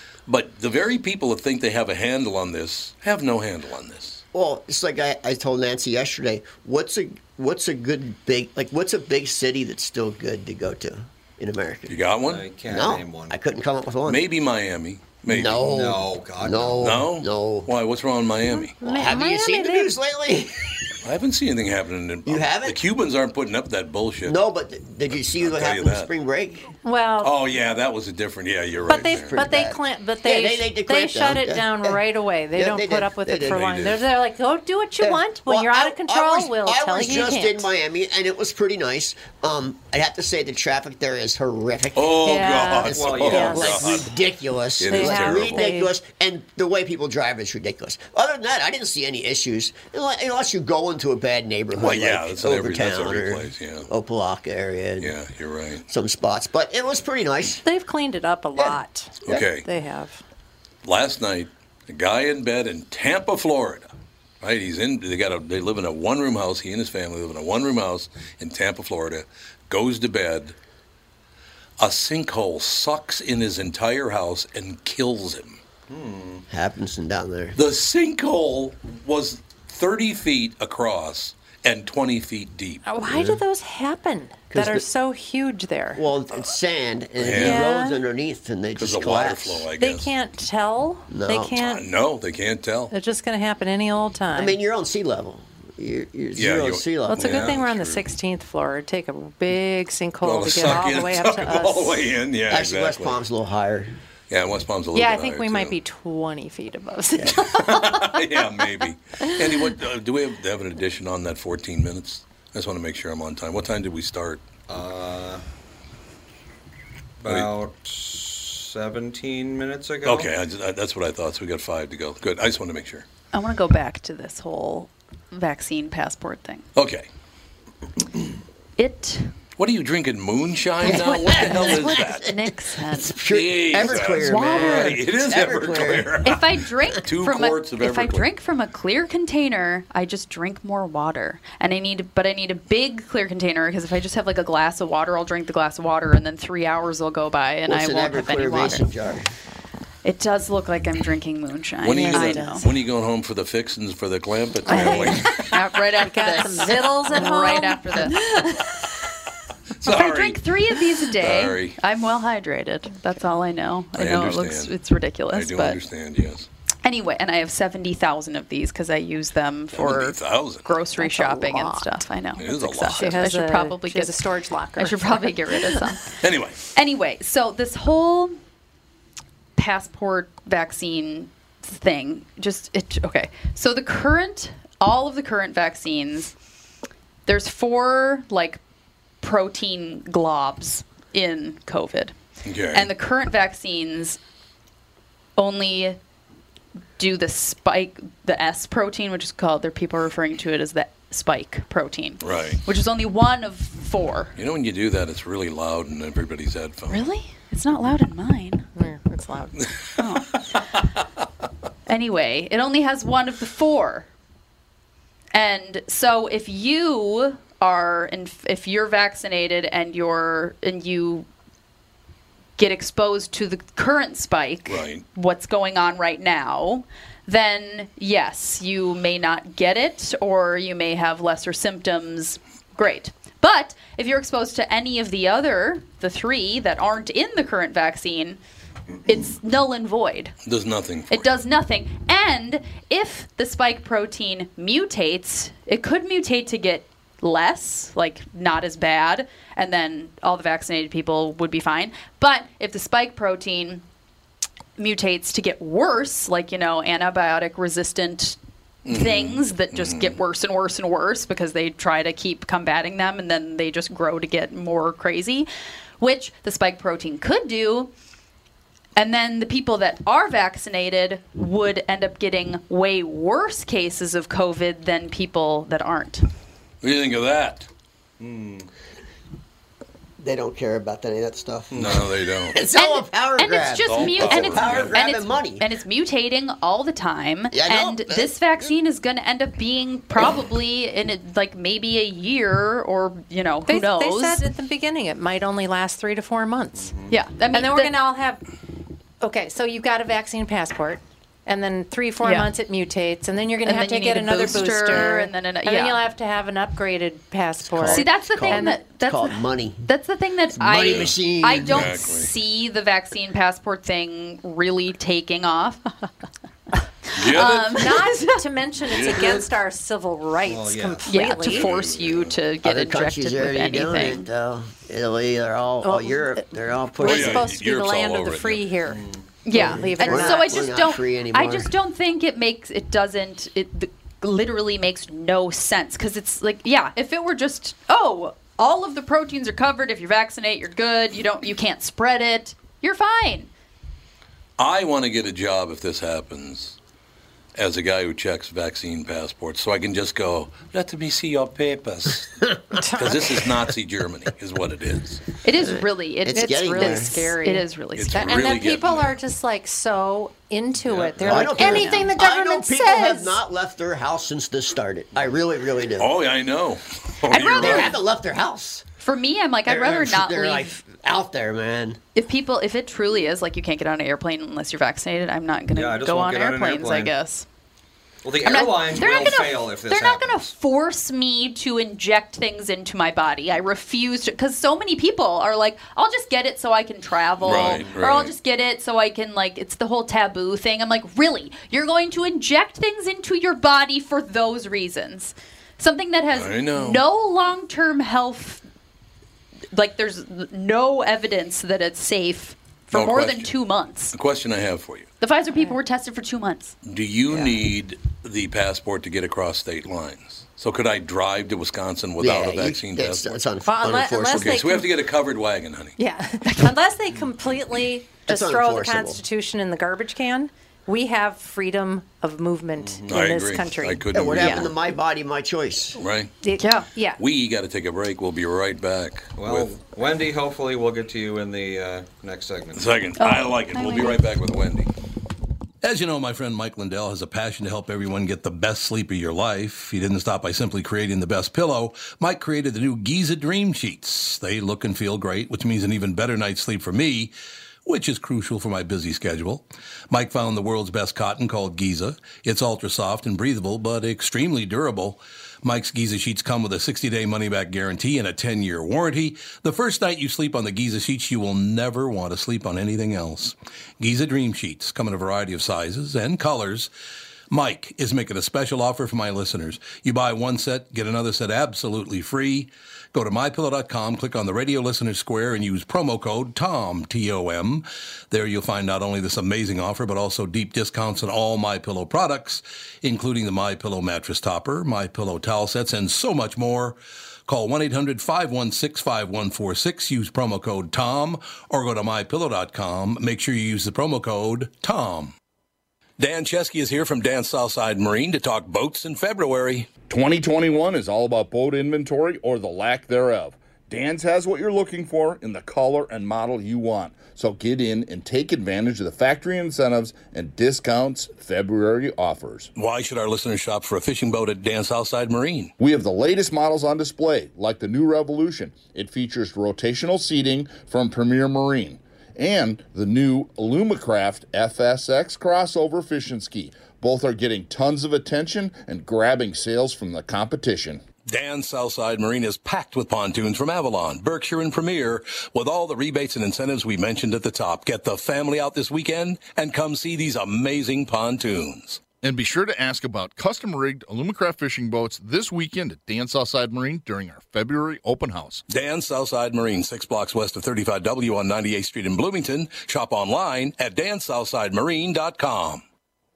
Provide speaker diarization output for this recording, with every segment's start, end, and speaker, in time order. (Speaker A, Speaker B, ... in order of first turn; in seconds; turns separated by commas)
Speaker A: 0.3-4.2, Speaker B: 4.3-12.0, Speaker A: 11.9-12.5, Speaker C: 12.2-13.4, Speaker B: 12.7-14.2, Speaker A: 14.1-15.7, Speaker B: 15.3-17.7, Speaker C: 15.6-16.8, Speaker A: 16.8-18.8, Speaker D: 18.8-19.9, Speaker B: 18.8-20.9, Speaker A: 21.0-24.4, Speaker B: 22.3-22.8, Speaker B: 24.2-26.7, Speaker A: 25.1-26.1, Speaker D: 26.8-27.3, Speaker A: 27.2-29.5, Speaker D: 28.9-37.7, Speaker B: 28.9-32.0, Speaker B: 32.5-33.6, Speaker A: 33.5-34.0, Speaker B: 35.0-55.1, Speaker A: 42.0-44.1, Speaker D: 42.2-43.8, Speaker C: 42.9-43.9, Speaker A: 44.8-45.7, Speaker D: 44.9-45.9, Speaker A: 51.8-53.9, Speaker A: 55.0-55.9, Speaker B: 55.9-57.6, Speaker D: 57.6-60.2, Speaker A: 59.2-59.7, Speaker A: 60.8-63.9, Speaker A: 64.4-70.5, Speaker A: 71.8-75.6, Speaker C: 75.9-76.5, Speaker B: 76.5-77.6, Speaker A: 77.6-83.4, Speaker D: 82.9-86.0, Speaker B: 84.5-84.8, Speaker B: 86.0-89.6, Speaker A: 87.2-87.7, Speaker D: 87.3-88.0, Speaker A: 88.8-90.1, Speaker D: 89.8-91.8, Speaker B: 91.1-91.6, Speaker A: 91.6-92.9, Speaker D: 92.9-94.6, Speaker B: 94.3-97.5, Speaker A: 96.4-98.1, Speaker D: 97.1-102.0, Speaker A: 100.2-103.2, Speaker B: 102.5-104.0, Speaker A: 104.3-105.8, Speaker D: 104.9-108.2, Speaker A: 107.3-114.5, Speaker C: 114.7-115.4, Speaker C: 117.2-120.3, Speaker A: 117.3-117.5, Speaker A: 120.0-123.1, Speaker E: 123.3-126.7, Speaker A: 126.8-127.1, Speaker E: 128.8-129.3, Speaker A: 129.6-132.3, Speaker B: 130.8-136.4, Speaker E: 130.8-133.2, Speaker A: 133.3-138.3, Speaker E: 134.1-135.0, Speaker E: 136.2-148.9, Speaker B: 147.7-149.3, Speaker E: 150.0-152.7, Speaker A: 151.8-155.5, Speaker D: 151.9-152.7, Speaker D: 154.7-158.3, Speaker E: 154.7-159.0, Speaker A: 159.8-161.8, Speaker E: 159.9-165.8, Speaker A: 164.0-164.8, Speaker A: 165.3-166.5, Speaker E: 166.8-174.2, Speaker A: 169.7-170.7, Speaker D: 171.0-172.1, Speaker A: 172.4-173.2, Speaker D: 172.9-176.0, Speaker E: 174.8-176.2, Speaker A: 176.2-176.6, Speaker E: 176.7-178.4, Speaker E: 179.6-186.3, Speaker E: 187.3-188.6, Speaker E: 189.2-192.2, Speaker A: 192.4-192.9, Speaker E: 192.7-194.2, Speaker E: 195.4-196.0, Speaker E: 197.0-204.3, Speaker A: 202.2-202.6, Speaker A: 204.4-207.1, Speaker E: 206.9-208.7, Speaker D: 208.8-209.7, Speaker A: 209.6-210.1, Speaker E: 210.0-210.4, Speaker E: 211.9-214.1, Speaker E: 215.3-221.3, Speaker E: 222.6-238.4, Speaker A: 224.7-225.1, Speaker E: 239.1-240.3, Speaker A: 240.4-241.3, Speaker E: 241.1-253.8, Speaker E: 254.8-265.5, Speaker A: 258.9-260.2, Speaker E: 266.0-267.9, Speaker E: 269.0-276.3, Speaker A: 276.8-277.7, Speaker C: 278.2-278.7, Speaker B: 280.2-281.9, Speaker C: 281.7-282.0, Speaker A: 281.7-282.6, Speaker B: 282.5-285.7, Speaker E: 282.8-294.4, Speaker A: 283.8-285.0, Speaker B: 287.5-288.7, Speaker D: 293.7-296.9, Speaker C: 296.8-297.2, Speaker E: 297.1-298.0, Speaker D: 297.5-298.4, Speaker D: 299.2-308.8, Speaker E: 302.2-302.5, Speaker E: 303.6-306.0, Speaker B: 307.7-309.9, Speaker E: 307.8-315.9, Speaker B: 310.5-311.9, Speaker A: 310.9-312.3, Speaker E: 317.1-318.4, Speaker A: 317.2-317.7, Speaker D: 317.7-321.7, Speaker A: 318.9-319.4, Speaker C: 320.4-321.2, Speaker E: 321.1-324.3, Speaker A: 321.4-322.4, Speaker B: 322.6-327.4, Speaker D: 325.8-330.6, Speaker A: 327.0-328.6, Speaker C: 328.9-329.3, Speaker E: 329.4-343.5, Speaker B: 329.5-331.7, Speaker A: 344.6-346.8, Speaker A: 347.6-352.4, Speaker D: 352.7-353.3, Speaker A: 353.0-355.3, Speaker E: 355.4-358.2, Speaker B: 355.6-357.1, Speaker D: 356.3-363.4, Speaker A: 358.0-359.1, Speaker C: 360.9-361.5, Speaker B: 361.2-366.1, Speaker E: 361.5-362.1, Speaker A: 366.0-367.9, Speaker E: 367.3-368.0, Speaker B: 367.3-368.8, Speaker E: 369.0-370.8, Speaker B: 369.7-372.0, Speaker E: 372.1-377.5, Speaker C: 375.7-377.1, Speaker C: 378.2-380.5, Speaker E: 378.4-398.6, Speaker A: 387.4-388.4, Speaker C: 387.6-388.1, Speaker A: 396.3-397.0, Speaker E: 399.7-404.1, Speaker A: 402.9-403.5, Speaker A: 404.1-405.1, Speaker E: 405.2-406.8, Speaker A: 406.9-413.4, Speaker B: 412.2-414.6, Speaker D: 413.7-414.9, Speaker A: 414.3-416.0, Speaker D: 416.0-424.0, Speaker B: 418.3-419.2, Speaker C: 422.8-423.1, Speaker A: 423.1-424.7, Speaker B: 424.1-426.0, Speaker E: 424.4-424.7, Speaker A: 426.0-426.4, Speaker D: 426.4-427.2, Speaker E: 426.6-426.9, Speaker A: 427.2-429.7, Speaker C: 429.4-432.8, Speaker A: 432.8-434.9, Speaker E: 433.2-434.3, Speaker A: 435.8-447.3, Speaker A: 447.9-466.9, Speaker A: 467.5-495.3, Speaker A: 496.2-499.9, Speaker F: 500.1-512.7, Speaker A: 512.8-515.7, Speaker F: 515.8-531.0, Speaker A: 531.3-542.0, Speaker F: 542.2-548.6, Speaker A: 548.7-555.8